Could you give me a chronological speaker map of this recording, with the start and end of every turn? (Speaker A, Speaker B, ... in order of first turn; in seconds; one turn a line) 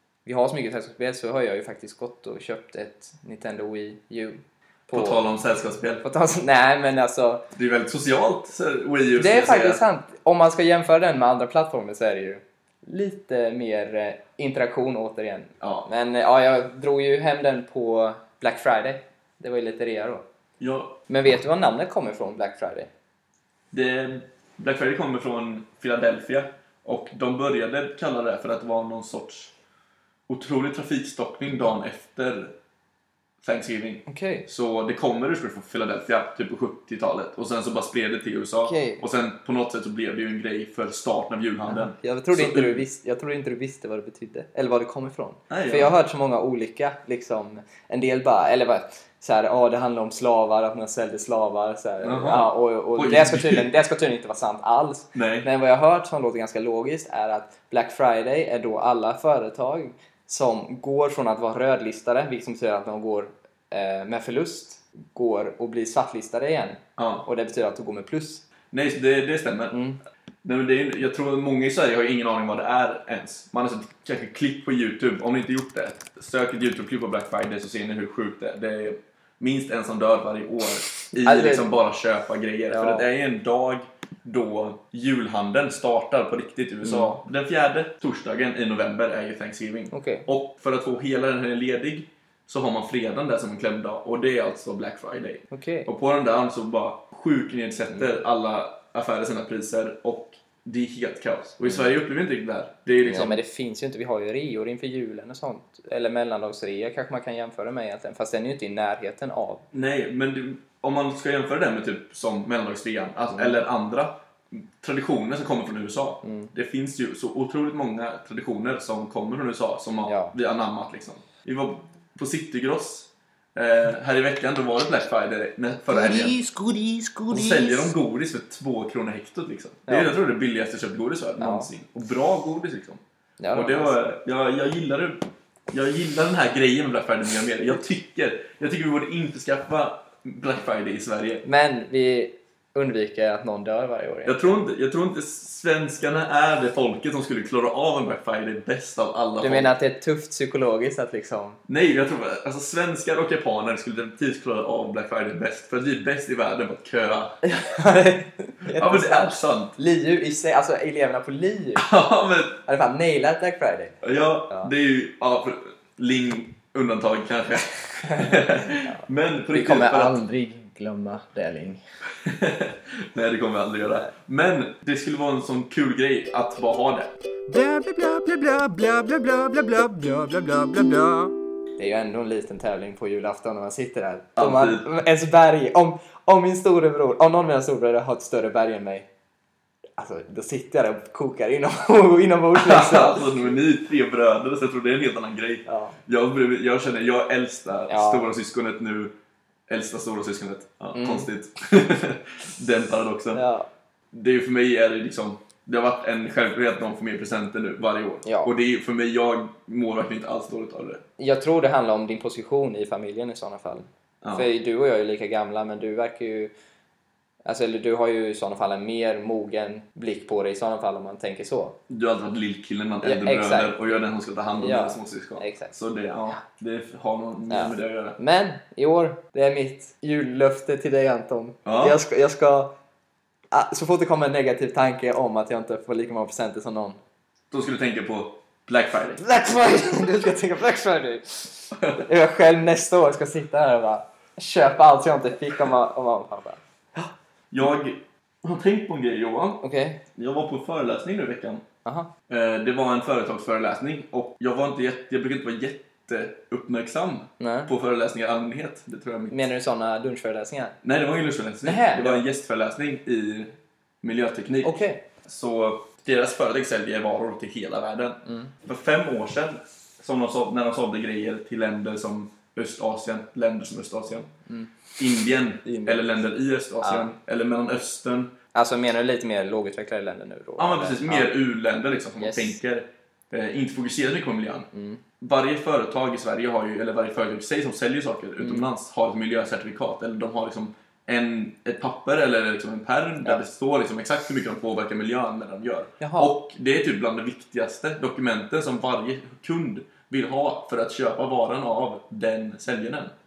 Speaker A: 0.2-5.2
Speaker B: 4.9-6.0
Speaker A: 6.0-7.4
Speaker B: 7.5-9.8
Speaker A: 9.2-20.2
Speaker B: 15.6-15.9
Speaker B: 20.6-21.0
Speaker A: 21.1-22.9
Speaker B: 23.7-29.5
Speaker B: 30.3-32.5
Speaker B: 33.4-42.8
Speaker A: 34.1-34.5
Speaker A: 38.6-39.0
Speaker A: 41.7-68.4
Speaker B: 45.5-46.0
Speaker B: 52.0-53.7
Speaker B: 55.1-55.5
Speaker B: 67.0-67.3
Speaker B: 68.7-69.8
Speaker A: 69.7-70.0
Speaker B: 70.4-103.4
Speaker A: 81.2-81.7
Speaker A: 82.7-83.1
Speaker A: 86.8-87.1
Speaker A: 89.9-90.2
Speaker A: 95.5-95.9
Speaker A: 103.0-109.6
Speaker B: 109.7-126.4
Speaker A: 116.2-116.5
Speaker A: 120.1-120.3
Speaker C: 126.6-127.2
Speaker B: 127.3-141.4
Speaker A: 129.9-130.1
Speaker A: 131.4-131.7
Speaker A: 133.4-133.9
Speaker A: 141.4-144.4
Speaker B: 144.2-149.7
Speaker A: 149.4-151.6
Speaker B: 151.7-157.4
Speaker A: 157.4-161.9
Speaker B: 158.7-159.8
Speaker B: 161.8-162.6
Speaker A: 162.7-163.9
Speaker B: 164.0-170.2
Speaker A: 168.1-169.0
Speaker A: 169.5-171.8
Speaker B: 172.2-177.1
Speaker C: 177.5-181.3
Speaker A: 181.8-189.1
Speaker B: 184.4-184.9
Speaker A: 190.0-193.5
Speaker B: 192.5-199.1
Speaker A: 195.7-195.9
Speaker A: 197.9-198.3
Speaker B: 199.7-203.4
Speaker A: 200.9-201.3
Speaker A: 203.3-203.7
Speaker B: 204.1-211.0
Speaker A: 208.2-208.5
Speaker A: 211.2-216.5
Speaker B: 214.2-214.5
Speaker A: 217.4-221.8
Speaker B: 221.9-228.2
Speaker A: 223.0-223.8
Speaker A: 224.6-225.7
Speaker A: 227.5-232.7
Speaker B: 231.6-232.0
Speaker A: 233.5-237.0
Speaker B: 237.5-239.2
Speaker A: 239.2-247.1
Speaker B: 241.8-242.0
Speaker B: 247.5-249.6
Speaker A: 249.6-250.0
Speaker B: 250.2-251.6
Speaker A: 251.8-252.1
Speaker B: 252.3-259.4
Speaker A: 257.4-257.7
Speaker A: 259.3-260.8
Speaker B: 260.8-274.3
Speaker A: 261.6-262.2
Speaker A: 264.6-265.0
Speaker A: 268.2-268.5
Speaker B: 275.0-278.3
Speaker A: 275.6-276.0
Speaker A: 276.8-277.1
Speaker A: 278.5-281.3
Speaker B: 280.6-284.7
Speaker A: 282.2-282.6
Speaker A: 284.7-285.0
Speaker B: 285.2-303.1
Speaker A: 288.4-288.7
Speaker A: 296.0-296.3